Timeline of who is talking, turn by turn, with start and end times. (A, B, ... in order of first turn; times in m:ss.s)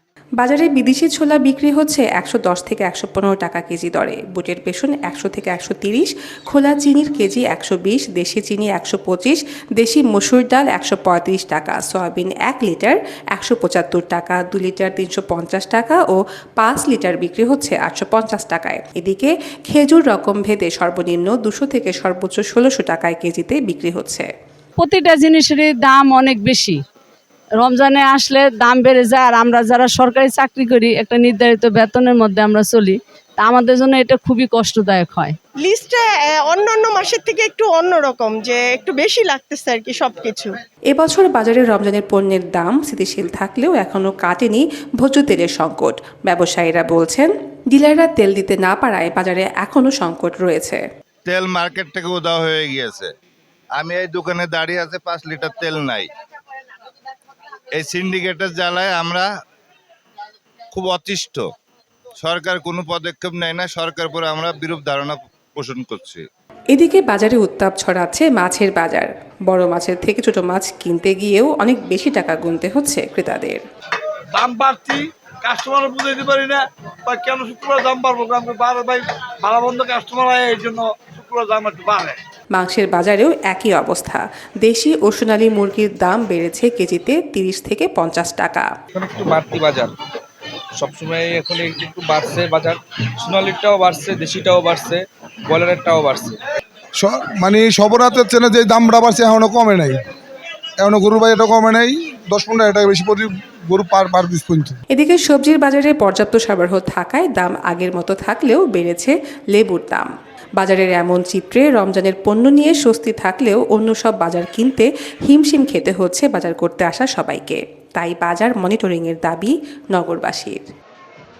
0:00.4-0:24.3 A
0:24.8-0:26.8 B
0:27.6-0:35.3 B
0:35.6-0:40.5 C
0:40.9-0:50.8 A
0:51.3-0:53.1 D
0:53.8-0:56.0 D
0:57.8-0:59.2 D
1:00.7-1:01.4 D
1:02.2-1:06.2 D
1:06.7-1:13.6 A
1:14.3-1:22.2 E
1:22.5-1:28.7 A
1:28.9-1:29.9 F
1:30.8-1:36.4 F
1:37.0-1:40.0 G
1:40.8-1:44.8 G
1:44.9-1:50.1 A
1:50.6-2:00.7 A